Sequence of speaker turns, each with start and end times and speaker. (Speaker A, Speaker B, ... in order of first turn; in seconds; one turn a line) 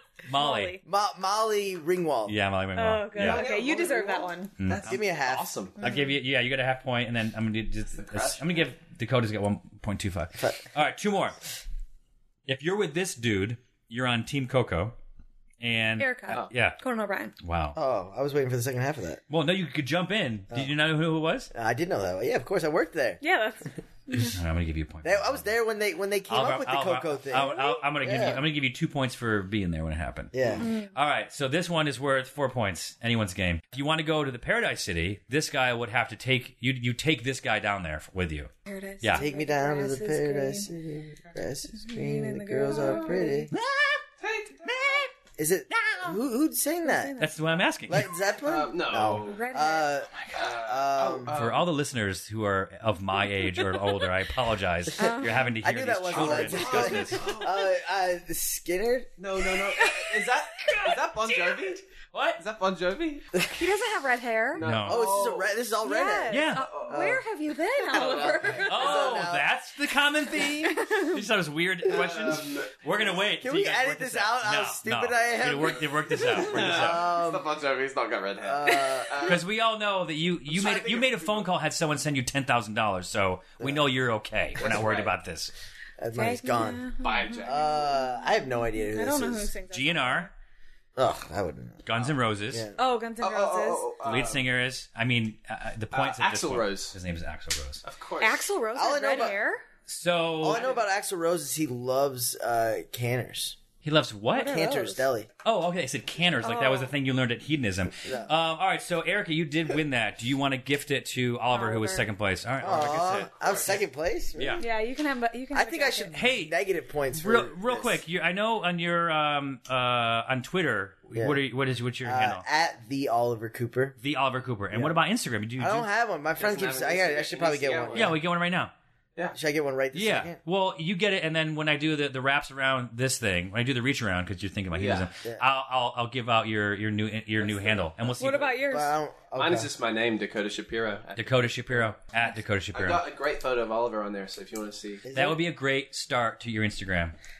Speaker A: 0.3-0.8
Speaker B: 0.3-0.8
Speaker C: 0.8-2.4
Speaker A: 2.3-3.5
Speaker B: 2.8-4.5
Speaker D: 3.1-5.9
Speaker A: 4.6-5.0
Speaker C: 4.8-5.5
Speaker A: 5.8-11.4
Speaker D: 7.9-8.7
Speaker A: 12.5-14.9
Speaker A: 15.6-16.8
Speaker B: 16.0-17.3
Speaker A: 17.4-17.8
Speaker C: 17.8-19.2
Speaker A: 19.3-21.5
Speaker C: 21.5-23.2
Speaker B: 23.2-24.4
Speaker A: 24.2-25.5
Speaker C: 25.0-28.5
Speaker A: 26.3-30.3
Speaker C: 30.3-30.7
Speaker B: 30.6-30.9
Speaker A: 30.9-38.5
Speaker B: 38.7-40.7
Speaker C: 39.1-43.5
Speaker B: 41.7-43.5
Speaker A: 43.5-44.0
Speaker D: 44.2-45.1
Speaker C: 45.4-47.2
Speaker A: 45.8-46.1
Speaker B: 46.8-47.4
Speaker A: 47.2-48.1
Speaker C: 47.9-51.4
Speaker D: 48.4-49.4
Speaker B: 49.2-49.9
Speaker A: 50.1-50.5
Speaker D: 50.4-51.8
Speaker A: 51.3-57.3
Speaker C: 55.0-59.2
Speaker B: 55.0-55.4
Speaker D: 56.1-57.6
Speaker D: 59.2-61.8
Speaker B: 59.8-60.1
Speaker A: 62.1-62.4
Speaker D: 62.4-63.2
Speaker C: 63.4-63.6
Speaker B: 63.6-64.6
Speaker D: 64.5-65.6
Speaker A: 64.6-65.1
Speaker C: 64.8-67.2
Speaker B: 65.8-69.0
Speaker A: 66.3-66.7
Speaker D: 66.5-67.1
Speaker D: 67.9-68.7
Speaker C: 67.9-69.5
Speaker A: 68.7-77.2
Speaker B: 70.6-71.2
Speaker D: 71.9-73.0
Speaker C: 73.4-77.5
Speaker D: 76.3-79.5
Speaker C: 78.4-79.4
Speaker A: 79.2-85.5
Speaker D: 80.5-81.5
Speaker D: 84.6-85.2
Speaker C: 86.0-86.9
Speaker B: 86.2-90.3
Speaker D: 87.0-88.0
Speaker C: 87.5-89.5
Speaker A: 89.7-90.3
Speaker C: 91.0-92.8
Speaker A: 91.9-92.7
Speaker B: 92.8-93.9
Speaker D: 93.2-94.5
Speaker A: 94.0-97.8
Speaker D: 95.9-97.0
Speaker D: 97.8-98.5
Speaker B: 98.2-99.6
Speaker C: 98.8-99.4
Speaker A: 99.9-100.6
Speaker C: 100.4-103.6
Speaker D: 100.4-100.9
Speaker A: 103.8-104.6
Speaker B: 104.3-105.1
Speaker C: 104.4-105.3
Speaker A: 105.4-113.8
Speaker B: 106.4-106.9
Speaker B: 111.5-112.0
Speaker C: 112.6-114.6
Speaker A: 114.4-114.6
Speaker B: 114.6-116.2
Speaker C: 115.5-118.0
Speaker A: 116.1-116.5
Speaker A: 117.1-122.5
Speaker C: 121.1-121.4
Speaker C: 122.0-124.0
Speaker A: 124.0-125.9
Speaker C: 125.6-128.2
Speaker D: 126.3-128.2
Speaker A: 127.9-128.7
Speaker C: 129.3-130.4
Speaker A: 129.9-138.6
Speaker D: 134.7-135.1
Speaker D: 137.4-138.1
Speaker B: 138.2-138.9
Speaker C: 138.7-139.7
Speaker D: 139.4-141.9
Speaker A: 141.2-143.0
Speaker D: 142.7-145.1
Speaker C: 145.0-145.4
Speaker A: 145.1-147.2